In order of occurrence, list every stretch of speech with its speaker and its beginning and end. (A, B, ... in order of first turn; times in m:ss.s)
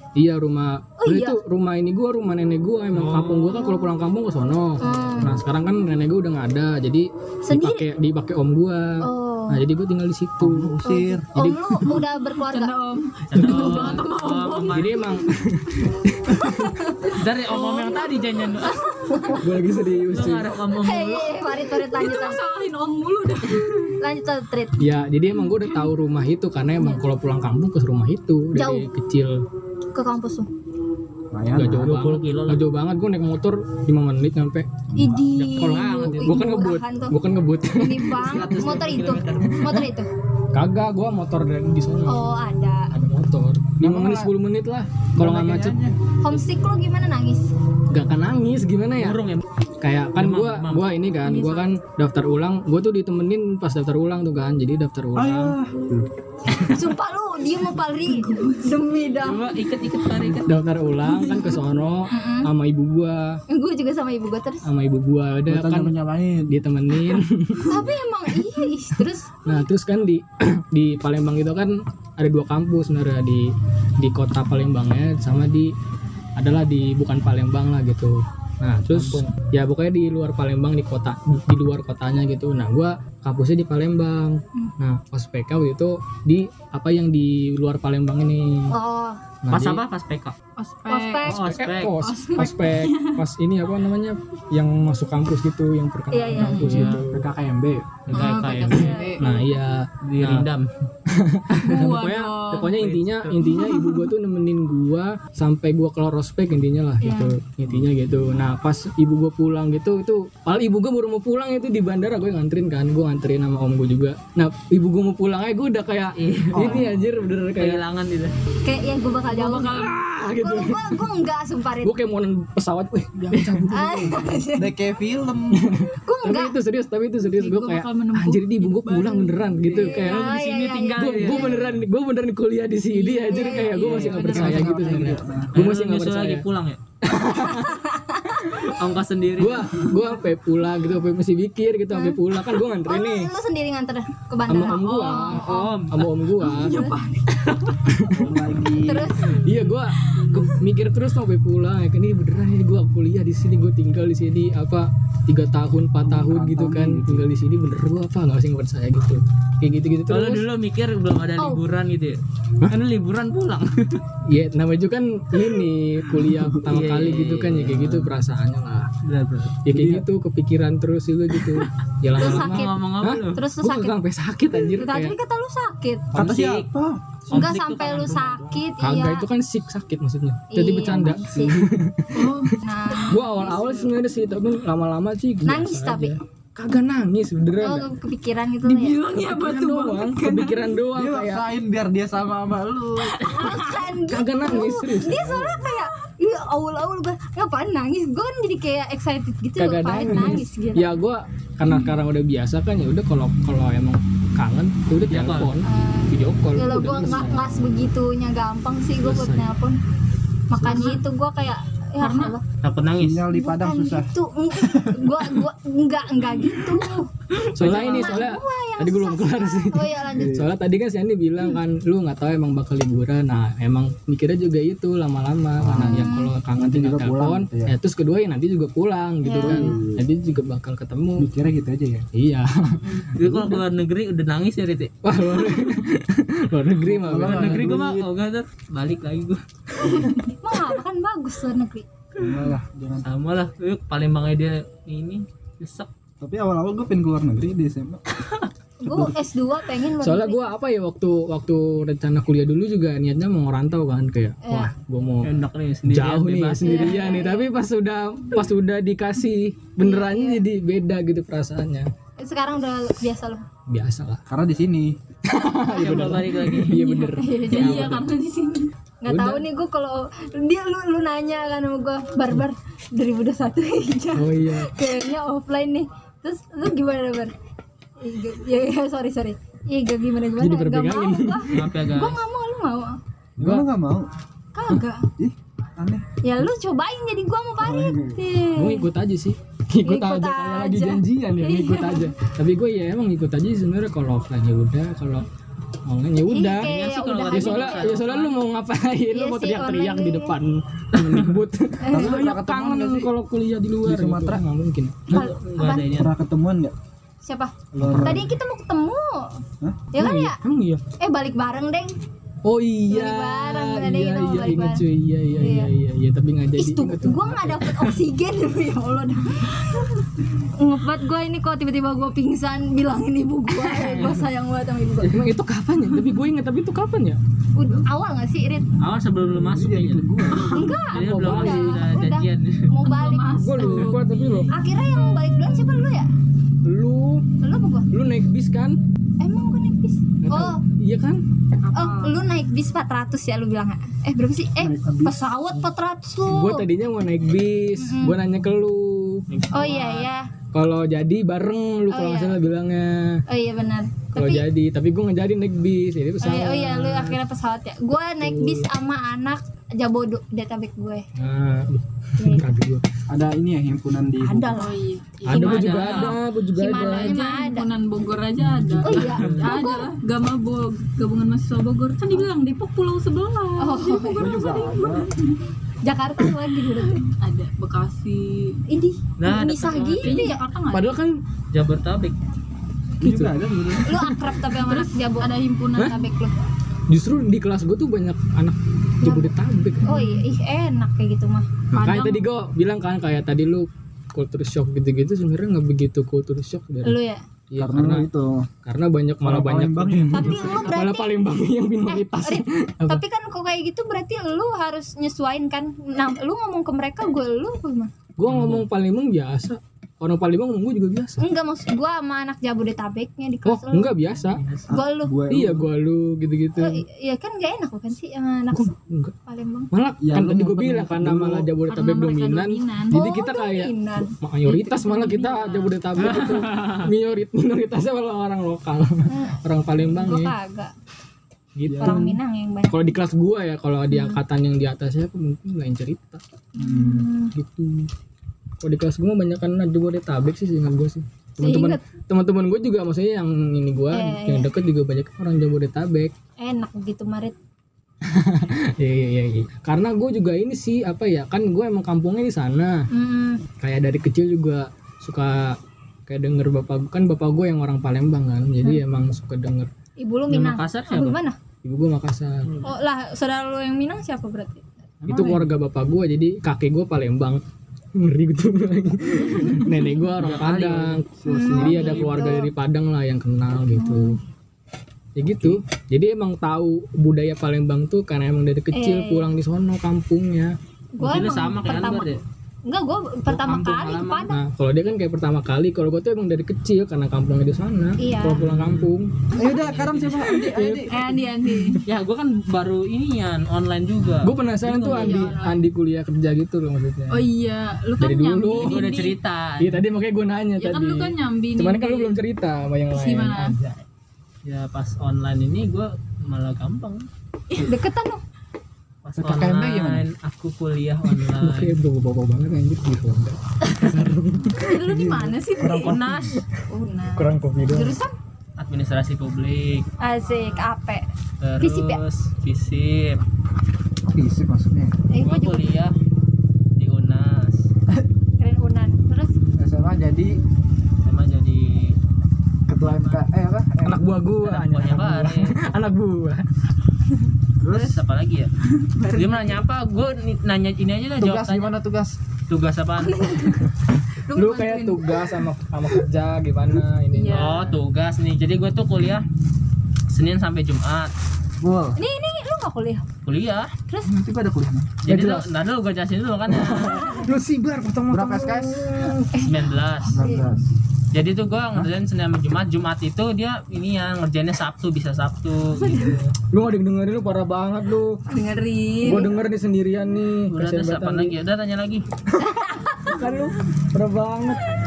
0:00.2-0:10.8 A
0:01.0-0:01.4 B
0:02.9-0:03.5 C
0:03.5-0:03.9 B
0:04.8-0:05.3 B
0:07.4-0:07.9 B
0:09.0-0:09.6 B
0:10.4-0:11.3 D
0:10.8-0:12.7 B
0:11.3-0:12.0 A
0:12.3-0:15.2 E
0:13.3-0:15.1 C
0:13.4-0:14.0 A
0:14.7-0:16.8 A
0:16.5-0:17.0 B
0:17.1-0:18.8 C
0:17.5-0:18.2 E
0:18.7-0:19.4 B
0:19.4-0:20.5 A
0:20.1-0:21.4 C
0:20.8-0:22.4 B
0:21.7-0:23.9 E
0:24.0-0:24.9 B
0:24.8-0:29.4 A
0:28.5-0:28.8 B
0:29.9-0:30.5 B
0:31.3-0:32.0 D
0:31.5-0:38.6 A
0:31.8-0:32.6 C
0:35.0-0:37.2 B
0:35.5-0:36.4 C
0:37.7-0:40.1 B
0:38.2-0:39.8 C
0:39.6-0:39.9 A
0:40.5-0:42.3 A
0:42.0-0:42.9 B
0:42.9-0:45.8 A
0:43.8-0:44.3 D
0:45.2-0:46.0 D
0:46.2-0:47.5 B
0:47.9-0:49.2 A
0:49.0-0:49.4 C
0:49.8-0:55.6 A
0:50.1-0:50.9 C
0:51.2-0:51.7 E
0:55.1-0:56.1 D
0:56.7-0:59.5 B
0:58.1-0:58.6 E
0:59.2-1:00.5 C
1:00.4-1:03.4 A
1:02.1-1:02.5 B
1:03.5-1:04.7 B
1:04.6-1:05.9 A
1:05.5-1:06.6 D
1:06.5-1:07.8 A
1:07.6-1:09.3 B
1:09.4-1:13.5 A
1:14.0-1:15.7 A
1:16.4-1:28.7 A
1:18.9-1:19.3 D
1:28.7-1:29.2 B
1:29.4-1:29.8 A
1:29.5-1:30.3 C
1:30.6-1:31.3 E
1:30.9-1:32.4 B
1:31.2-1:32.0 C
1:31.3-1:37.2 A
1:32.0-1:33.2 E
1:36.1-1:36.7 B
1:36.3-1:37.0 C
1:36.8-1:38.0 D
1:38.1-1:39.0 C
1:38.1-1:39.3 E
1:38.2-1:39.4 B
1:38.6-1:40.5 A
1:40.1-1:40.7 C
1:41.1-1:57.8 A
1:41.6-1:42.7 E
1:42.6-1:43.4 C
1:43.4-1:44.1 E
1:47.0-1:47.4 B
1:56.2-1:56.9 C
1:56.5-1:57.0 D
1:57.6-1:58.3 C
1:58.6-2:02.0 B
1:59.3-2:00.0 E
1:59.6-2:01.0 A
2:01.8-2:04.4 A
2:03.2-2:05.7 D
2:03.7-2:04.7 B
2:05.5-2:10.4 A
2:06.0-2:06.6 B
2:07.3-2:09.9 E
2:09.6-2:09.9 D
2:09.7-2:11.6 B
2:09.9-2:11.7 C
2:10.9-2:16.4 A
2:12.9-2:14.0 B
2:13.0-2:15.2 E
2:13.8-2:15.5 D
2:15.5-2:16.8 C
2:17.0-2:17.9 A
2:17.5-2:18.7 B
2:18.7-2:19.9 C
2:19.4-2:23.3 A
2:21.9-2:25.5 B
2:24.5-2:26.8 A
2:24.6-2:25.8 E
2:25.4-2:26.1 C
2:26.4-2:27.7 E
2:26.5-2:27.0 B
2:27.8-2:28.4 A
2:28.1-2:29.1 D
2:28.8-2:29.5 B
2:29.3-2:40.4 A
2:30.1-2:30.4 E
2:36.0-2:37.2 D
2:40.1-2:44.0 C
2:44.3-2:48.9 A
2:46.6-2:48.1 C
2:49.0-2:49.6 C
2:49.6-2:55.2 A
2:49.7-2:50.0 D
2:52.2-2:52.8 B
2:52.2-2:53.4 C
2:53.3-2:54.0 B
2:54.7-2:56.1 B
2:56.1-2:56.7 C
2:56.1-2:57.0 D
2:57.3-2:58.6 C
2:57.3-2:59.3 B
2:58.8-3:02.5 A
3:00.5-3:01.7 B
3:02.1-3:03.8 E
3:02.6-3:03.9 B
3:03.1-3:07.9 A
3:05.4-3:06.2 B
3:07.6-3:09.0 B
3:08.6-3:10.7 E
3:09.1-3:11.4 A
3:10.9-3:13.3 D
3:13.3-3:20.9 B
3:13.4-3:15.7 A
3:19.6-3:27.6 A
3:25.1-3:25.5 C
3:25.6-3:29.8 B
3:29.0-3:29.5 A
3:30.5-3:32.4 B
3:30.6-3:31.0 E
3:32.0-3:32.3 E
3:32.6-3:33.3 C
3:33.0-3:35.1 D
3:33.3-3:40.4 B
3:37.5-3:38.1 C
3:37.5-3:51.3 A
3:40.2-3:40.5 D
3:45.6-3:47.7 D
3:45.8-3:46.3 B
3:49.2-3:49.8 B
3:49.4-3:50.0 D
3:51.2-3:52.0 D
3:52.1-3:53.5 A
3:53.1-3:54.9 C
3:55.0-3:57.8 A
3:56.8-3:58.1 D
3:57.1-3:59.4 C
4:00.2-4:01.9 B
4:02.2-4:02.5 C
4:02.2-4:03.1 D
4:03.0-4:05.9 C
4:06.2-4:08.1 D
4:08.8-4:10.5 B
4:08.9-4:09.2 D
4:10.0-4:15.3 A
4:14.4-4:14.7 B
4:15.2-4:16.8 C
4:15.9-4:21.9 A
4:16.6-4:17.5 B
4:19.8-4:20.4 B
4:22.2-4:23.4 B
4:23.7-4:24.2 A
4:24.3-4:25.0 D
4:25.2-4:28.1 A
4:25.7-4:26.8 C
4:26.7-4:27.9 B
4:27.4-4:28.7 E
4:29.0-4:37.3 B
4:29.0-4:29.4 A
4:34.1-4:34.7 A
4:38.0-4:43.0 B
4:40.4-4:41.7 A
4:41.5-4:42.2 C
4:43.4-4:44.1 D
4:43.4-4:43.7 A
4:44.5-4:45.1 B
4:45.1-4:46.0 D
4:46.2-4:48.9 B
4:47.6-4:48.2 D
4:48.5-4:55.3 A
4:49.8-4:52.1 B
4:55.8-5:05.1 A
4:56.2-4:58.0 B
4:56.6-4:58.3 C
4:59.1-5:00.3 B
5:00.9-5:01.3 C
5:01.8-5:02.2 B
5:01.9-5:03.1 D
5:03.8-5:04.4 D
5:05.1-5:06.1 C
5:05.1-5:05.9 B
5:05.9-5:06.7 D
5:07.2-5:09.4 B
5:07.7-5:08.3 D
5:07.8-5:08.3 A
5:09.9-5:10.4 B
5:10.0-5:10.8 A
5:11.0-5:12.0 B
5:12.4-5:17.9 A
5:12.9-5:14.8 B
5:15.4-5:15.7 B
5:16.6-5:19.9 B
5:20.5-5:25.2 B
5:23.7-5:24.2 C
5:25.0-5:27.2 A
5:27.6-5:28.6 B
5:28.8-5:30.3 C
5:29.2-5:30.7 D
5:30.5-5:33.9 B
5:30.9-5:32.7 C
5:31.0-5:31.8 A
5:32.8-5:34.5 E
5:33.4-5:34.5 A
5:34.5-5:36.1 B
5:36.6-5:37.2 A
5:37.4-5:37.9 B
5:37.9-5:38.8 A
5:39.2-5:40.6 B
5:40.2-5:41.2 A
5:41.6-5:42.1 E
5:41.7-5:46.6 B
5:44.6-5:45.2 D
5:46.2-5:49.2 A
5:47.8-5:48.2 B
5:49.3-5:50.1 C
5:49.5-5:50.3 B
5:50.5-5:53.2 A
5:51.9-5:52.4 B
5:53.3-5:54.4 B
5:54.1-5:57.2 A
5:56.2-6:01.0 B
5:58.2-5:58.6 A
6:01.2-6:02.8 A
6:02.2-6:02.6 B
6:03.1-6:04.6 D
6:04.2-6:04.8 B
6:04.6-6:15.4 E
6:05.2-6:07.2 A
6:05.3-6:06.2 C
6:05.3-6:07.7 B
6:08.5-6:09.4 A
6:08.8-6:09.9 B
6:08.9-6:09.5 C
6:13.6-6:14.6 B
6:14.2-6:15.1 D
6:15.8-6:17.1 B
6:17.1-6:18.6 E
6:18.7-6:20.4 B
6:19.2-6:20.3 C
6:20.0-6:21.0 E
6:20.7-6:21.2 A
6:21.5-6:22.2 C
6:23.0-6:23.4 A
6:23.0-6:23.9 D
6:23.8-6:26.3 B
6:24.0-6:24.3 A
6:24.6-6:26.0 E
6:26.9-6:30.0 A
6:29.0-6:31.5 B
6:29.8-6:30.2 E
6:31.7-6:37.0 A
6:31.7-6:32.3 E
6:36.8-6:37.2 B
6:37.5-6:38.0 A
6:37.6-6:38.5 D
6:38.6-6:43.0 A
6:39.2-6:40.7 D
6:40.1-6:41.1 B
6:41.9-6:47.9 B
6:48.2-6:51.2 A
6:48.3-6:48.6 C
6:51.2-6:54.0 B
6:53.4-6:54.4 A
6:54.2-6:54.7 C
6:54.7-6:55.7 D
6:54.7-6:55.2 B
6:55.3-6:56.8 A
6:56.6-6:58.7 B
6:58.5-6:59.1 A
6:59.2-6:59.7 B
6:59.7-7:10.3 A
7:00.0-7:01.5 D
7:01.7-7:03.0 E
7:02.9-7:05.4 B
7:05.1-7:06.0 E
7:06.0-7:06.9 C
7:09.1-7:09.4 B
7:09.9-7:10.7 B
7:11.5-7:12.2 A
7:11.7-7:12.2 D
7:11.8-7:12.9 B
7:12.7-7:16.2 A
7:13.9-7:14.2 B
7:16.6-7:17.3 B
7:16.6-7:17.1 D
7:17.3-7:17.9 A
7:18.6-7:26.1 A
7:21.4-7:21.8 B
7:23.9-7:24.5 B
7:26.4-7:27.3 B
7:28.0-7:32.8 A
7:32.9-7:33.4 B
7:33.6-7:39.7 A
7:40.0-7:41.4 B
7:40.3-7:41.2 C
7:41.6-7:42.6 A
7:42.6-7:44.6 B
7:45.0-7:45.4 C
7:45.0-7:47.4 A
7:45.1-7:45.4 D
7:47.9-7:54.2 A
7:50.1-7:51.0 C
7:51.1-7:52.0 D
7:51.3-7:52.5 B
7:51.7-7:52.4 C
7:53.7-7:54.2 B
7:55.2-8:00.5 A
7:58.7-7:59.3 B
8:01.0-8:02.1 B
8:01.0-8:02.2 C
8:02.6-8:04.4 B
8:03.3-8:04.3 C
8:04.3-8:09.2 A
8:08.0-8:08.5 B
8:08.4-8:10.4 C
8:09.3-8:11.2 D
8:10.3-8:11.0 A
8:10.9-8:11.8 E
8:11.8-8:15.3 C
8:14.2-8:17.3 A
8:14.8-8:15.6 E
8:17.1-8:19.2 E
8:18.0-8:18.9 A
8:18.6-8:19.8 C
8:19.6-8:23.8 A
8:20.6-8:22.2 E
8:22.9-8:23.6 E
8:24.4-8:27.1 C
8:27.6-8:28.2 B
8:29.0-8:31.7 C
8:29.2-8:30.0 D
8:31.1-8:35.2 A
8:34.6-8:36.0 E
8:34.8-8:36.3 D
8:35.7-8:36.4 C
8:36.7-8:38.1 B
8:37.2-8:38.0 A
8:38.6-8:39.9 C
8:40.0-8:41.0 B
8:40.2-8:40.7 E
8:41.4-8:43.2 C
8:41.6-8:42.0 B
8:44.0-8:45.0 D
8:45.1-8:45.7 B
8:45.2-8:45.9 C
8:46.8-8:47.7 C
8:48.4-8:49.3 B
8:49.6-8:50.4 D
8:51.0-8:52.0 C
8:52.7-8:54.0 D
8:52.8-8:53.2 C
8:53.8-8:56.4 A
8:54.4-8:55.7 C
8:57.6-8:58.0 D
8:57.7-8:58.5 C
8:59.0-8:59.6 E
8:59.1-9:01.7 C
9:01.2-9:02.2 D
9:02.5-9:03.4 C
9:03.1-9:03.6 B
9:04.3-9:05.3 E
9:04.3-9:07.6 A
9:07.1-9:07.8 E
9:07.3-9:09.3 C
9:10.1-9:11.1 C
9:11.6-9:12.0 D
9:12.0-9:13.0 B
9:13.2-9:13.7 C
9:14.0-9:15.0 D
9:15.0-9:17.1 C
9:15.0-9:15.5 A
9:16.5-9:19.4 A
9:18.1-9:19.1 D
9:19.3-9:20.4 B
9:19.4-9:20.2 C
9:20.1-9:20.8 D
9:21.1-9:26.3 C
9:25.8-9:26.1 B
9:26.5-9:28.2 A
9:28.3-9:29.3 B
9:29.0-9:31.4 A
9:30.5-9:32.0 C
9:32.4-9:33.2 B
9:33.0-9:34.6 A